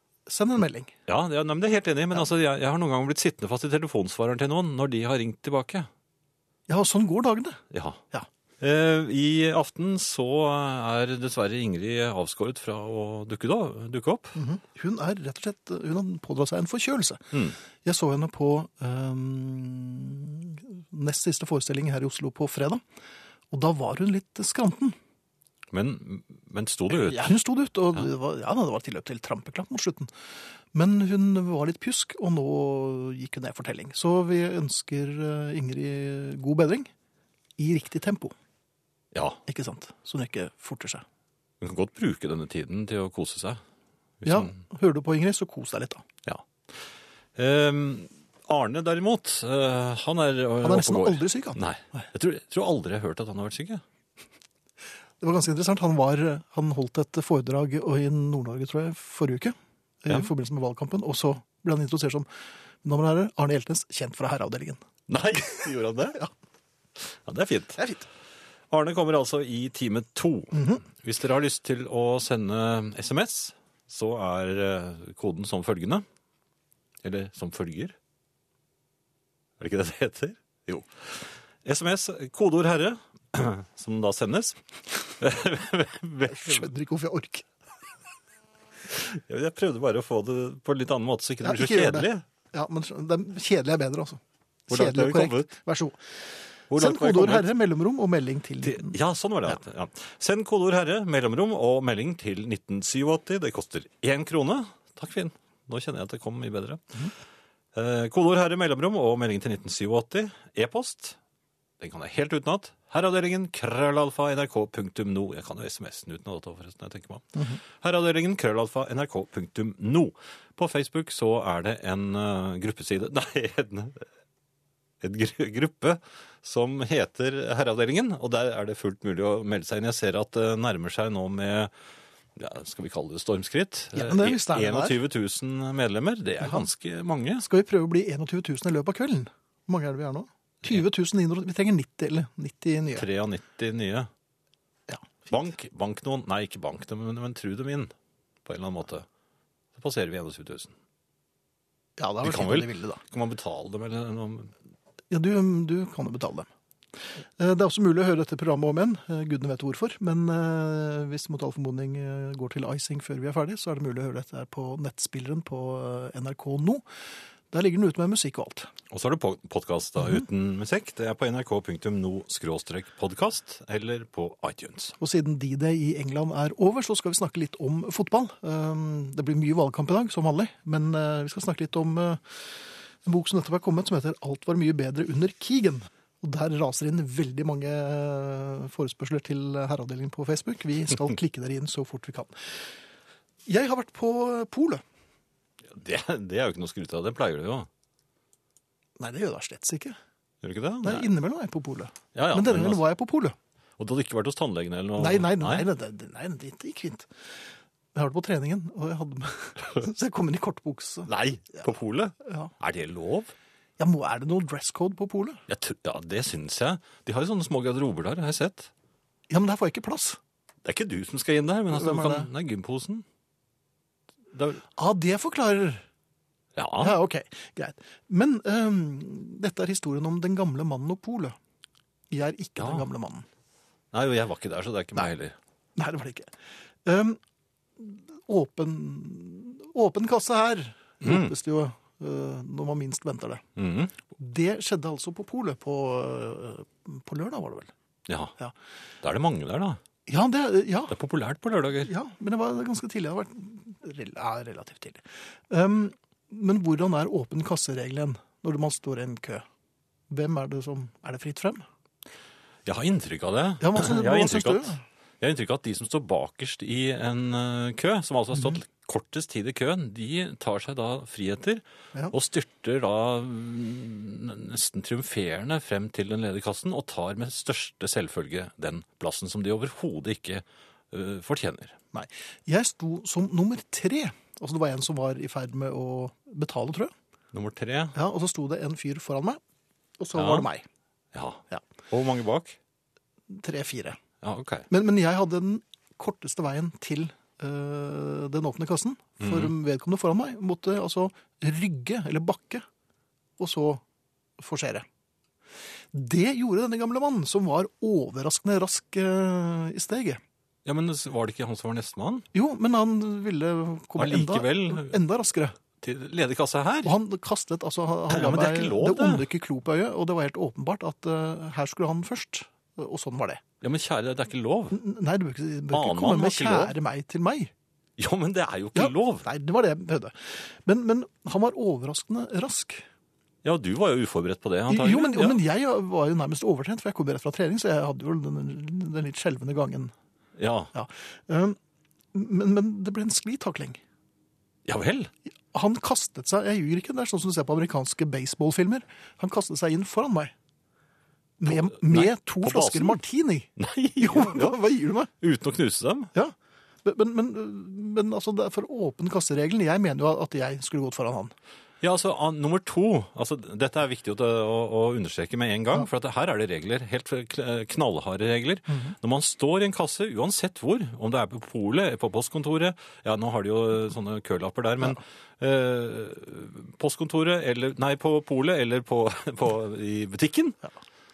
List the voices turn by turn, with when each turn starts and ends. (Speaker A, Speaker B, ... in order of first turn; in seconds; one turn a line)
Speaker A: 0.3-0.9
Speaker B: 1.1-5.9
Speaker A: 6.7-7.6
Speaker B: 7.7-8.0
Speaker B: 8.6-14.4
Speaker A: 14.4-17.2
Speaker A: 17.9-22.8
Speaker A: 23.5-25.0
Speaker B: 25.7-27.3
Speaker A: 26.9-30.1
Speaker A: 30.7-36.9
Speaker A: 37.6-38.3
Speaker B: 39.1-39.4
Speaker A: 39.5-41.0
Speaker B: 41.6-43.6
Speaker B: 44.2-44.5
Speaker A: 44.2-46.0
Speaker B: 47.4-53.8
Speaker A: 50.6-52.0
Speaker A: 55.2-62.3
Speaker A: 62.8-64.8
Speaker B: 65.1-66.2
Speaker B: 67.2-67.8
Speaker A: 67.8-68.1
Speaker B: 68.7-76.0
Speaker A: 70.5-70.8
Speaker B: 77.0-77.9
Speaker B: 79.6-84.6
Speaker B: 85.2-86.7
Speaker A: 86.3-87.5
Speaker B: 88.9-92.2
Speaker A: 91.4-96.0
Speaker B: 94.7-95.5
Speaker B: 96.7-97.5
Speaker A: 96.7-99.0
Speaker B: 98.6-106.8
Speaker B: 107.7-111.2
Speaker B: 111.8-124.0
Speaker B: 125.0-131.7
Speaker B: 132.4-137.5
Speaker A: 133.9-135.0
Speaker A: 137.4-143.1
Speaker B: 143.0-144.1
Speaker B: 145.3-147.9
Speaker B: 148.5-149.1
Speaker B: 149.8-150.7
Speaker A: 152.0-153.0
Speaker B: 152.2-154.5
Speaker A: 155.1-156.5
Speaker A: 157.4-166.8
Speaker A: 167.5-168.7
Speaker B: 168.9-175.0
Speaker A: 175.0-182.4
Speaker A: 183.0-192.6
Speaker A: 193.5-194.8
Speaker B: 195.7-197.7
Speaker A: 199.0-200.0
Speaker B: 200.4-201.1
Speaker A: 200.8-203.4
Speaker B: 202.1-202.8
Speaker B: 203.8-205.7
Speaker A: 205.0-207.1
Speaker A: 207.9-211.6
Speaker B: 211.1-213.3
Speaker A: 212.2-212.5
Speaker A: 213.8-215.4
Speaker B: 215.5-218.7
Speaker A: 219.3-220.2
Speaker B: 220.7-223.0
Speaker A: 221.7-222.3
Speaker B: 224.3-224.7
Speaker A: 224.8-225.8
Speaker B: 226.6-227.0
Speaker A: 226.8-231.4
Speaker A: 232.1-233.2
Speaker B: 232.6-232.9
Speaker B: 233.9-235.4
Speaker A: 235.8-236.3
Speaker A: 236.8-237.2
Speaker A: 237.8-243.4
Speaker B: 241.0-241.3
Speaker B: 243.6-243.9
Speaker A: 244.2-247.7
Speaker B: 248.1-248.3
Speaker B: 249.0-249.8
Speaker A: 250.1-250.9
Speaker B: 250.9-251.9
Speaker A: 251.8-259.4
Speaker A: 260.1-261.6
Speaker B: 262.7-281.8
Speaker A: 263.6-264.8
Speaker A: 281.9-286.9
Speaker B: 287.3-288.0
Speaker A: 287.9-289.4
Speaker A: 290.0-290.6
Speaker B: 290.1-290.5
Speaker B: 291.1-292.6
Speaker A: 293.3-294.0
Speaker B: 294.2-294.7
Speaker A: 294.7-302.6
Speaker B: 299.2-299.5
Speaker A: 303.4-303.8
Speaker A: 304.4-304.9
Speaker A: 305.9-310.2
Speaker B: 310.7-312.3
Speaker A: 312.3-315.6
Speaker B: 314.0-315.0
Speaker B: 315.8-316.9
Speaker A: 316.9-323.4
Speaker B: 318.1-319.3
Speaker B: 323.6-324.8
Speaker A: 324.7-327.5
Speaker B: 325.7-326.7
Speaker B: 328.0-329.3
Speaker A: 328.8-332.9
Speaker B: 333.4-335.4
Speaker A: 334.7-339.9
Speaker B: 340.4-340.7
Speaker A: 340.7-341.6
Speaker A: 342.1-343.8
Speaker B: 344.7-345.1
Speaker A: 345.5-350.3
Speaker A: 351.4-355.1
Speaker B: 351.4-353.0
Speaker B: 353.6-354.6
Speaker B: 355.2-356.1
Speaker A: 356.1-361.3
Speaker B: 361.8-380.6